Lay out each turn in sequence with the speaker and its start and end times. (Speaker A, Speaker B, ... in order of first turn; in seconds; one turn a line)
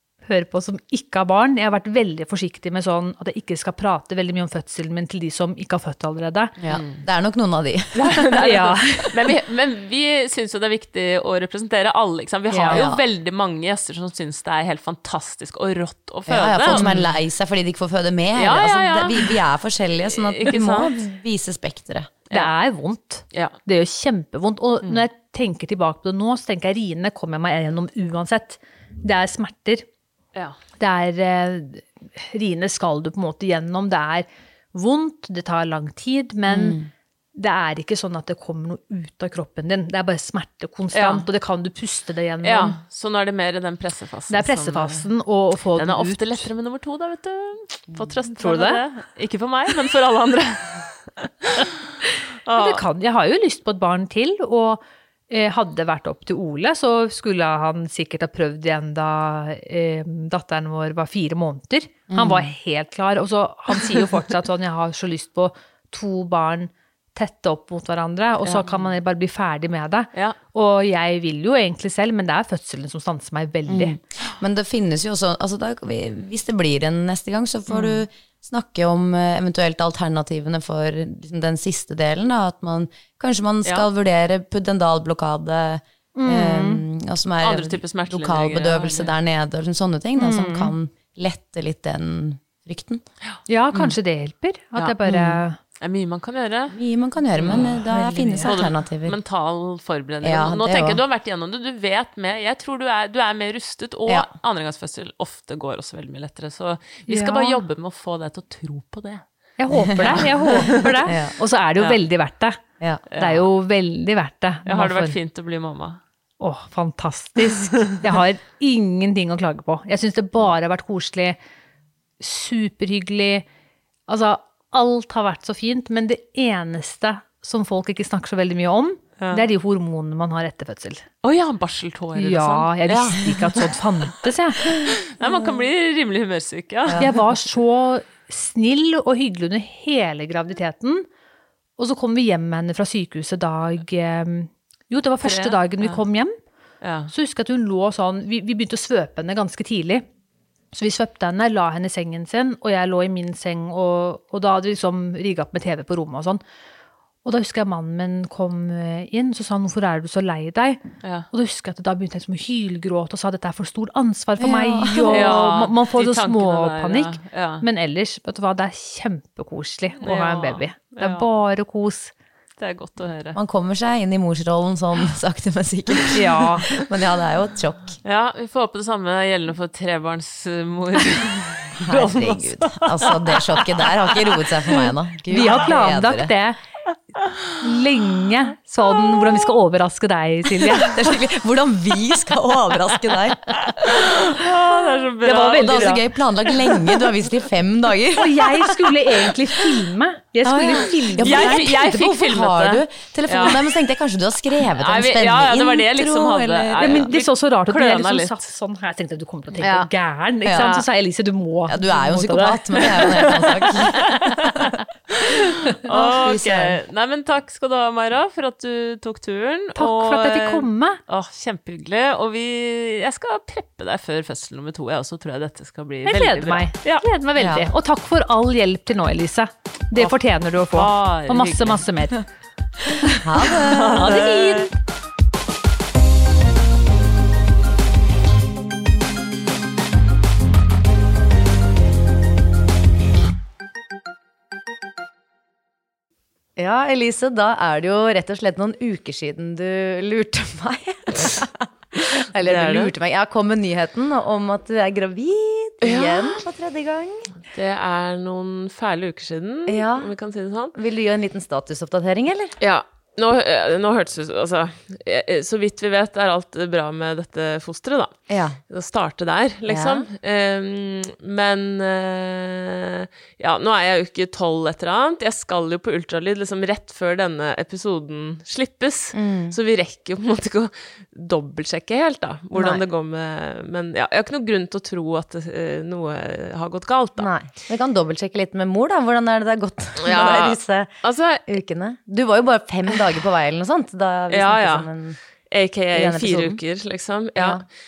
Speaker A: 0.2-6.5
Speaker B: 6.6-8.2
Speaker C: 6.7-7.0
Speaker C: 8.0-17.1
Speaker A: 8.3-9.1
Speaker A: 12.5-12.8
Speaker B: 12.7-13.0
Speaker B: 16.3-22.1
Speaker C: 18.4-19.4
Speaker C: 20.0-20.9
Speaker A: 22.3-29.8
Speaker A: 30.8-36.8
Speaker B: 36.5-36.9
Speaker A: 37.4-42.8
Speaker C: 40.9-41.2
Speaker C: 42.4-45.1
Speaker A: 44.3-46.5
Speaker C: 45.7-51.7
Speaker A: 48.3-48.8
Speaker C: 52.5-52.8
Speaker A: 52.5-74.0
Speaker B: 62.1-62.5
Speaker C: 68.5-68.8
Speaker B: 73.7-93.0
Speaker A: 86.2-86.8
Speaker C: 87.4-89.1
Speaker A: 90.2-90.7
Speaker A: 93.5-95.6
Speaker C: 94.8-96.8
Speaker B: 96.7-99.2
Speaker C: 97.4-97.8
Speaker A: 97.5-98.6
Speaker C: 98.4-109.2
Speaker B: 100.2-101.0
Speaker A: 107.1-107.6
Speaker A: 109.6-112.6
Speaker B: 109.9-111.3
Speaker C: 110.0-111.0
Speaker C: 113.1-113.5
Speaker A: 113.2-115.2
Speaker C: 114.7-116.0
Speaker A: 116.4-121.4
Speaker A: 122.2-123.5
Speaker A: 124.1-131.1
Speaker C: 129.2-129.4
Speaker C: 131.2-133.7
Speaker A: 132.2-134.7
Speaker C: 134.9-137.1
Speaker B: 136.9-137.1
Speaker A: 137.0-141.1
Speaker A: 141.8-146.4
Speaker C: 145.2-146.0
Speaker C: 146.8-147.1
Speaker A: 147.1-150.1
Speaker A: 150.7-156.4
Speaker A: 157.2-160.8
Speaker A: 161.3-172.1
Speaker B: 164.4-165.4
Speaker C: 165.1-167.7
Speaker C: 170.0-171.2
Speaker C: 172.6-173.4
Speaker B: 173.3-178.0
Speaker A: 176.2-176.7
Speaker C: 178.0-184.9
Speaker B: 181.8-186.3
Speaker A: 185.3-186.6
Speaker A: 187.6-190.9
Speaker B: 190.8-193.5
Speaker C: 193.8-196.0
Speaker A: 195.2-195.9
Speaker B: 195.3-198.5
Speaker A: 198.2-201.7
Speaker B: 200.4-207.1
Speaker C: 201.2-203.7
Speaker C: 204.7-208.4
Speaker A: 206.8-213.0
Speaker B: 210.4-210.8
Speaker B: 211.7-214.6
Speaker C: 213.0-214.3
Speaker A: 214.0-214.4
Speaker C: 215.4-227.1
Speaker B: 215.9-216.8
Speaker A: 219.8-221.0
Speaker A: 226.1-232.2
Speaker B: 227.4-227.7
Speaker C: 229.9-231.8
Speaker B: 233.2-234.1
Speaker C: 233.7-234.7
Speaker A: 233.9-234.7
Speaker B: 246.6-257.3
Speaker C: 252.4-252.9
Speaker C: 255.8-256.4
Speaker C: 257.5-260.7
Speaker B: 259.7-260.1
Speaker B: 260.7-262.5
Speaker C: 262.6-268.1
Speaker B: 268.3-268.6
Speaker C: 268.7-287.3
Speaker B: 269.7-270.1
Speaker B: 279.1-279.6
Speaker B: 282.5-282.8
Speaker B: 287.2-290.9
Speaker C: 290.0-291.4
Speaker B: 291.5-295.2
Speaker C: 294.3-294.9
Speaker C: 295.5-297.6
Speaker B: 295.9-296.6
Speaker B: 297.4-297.6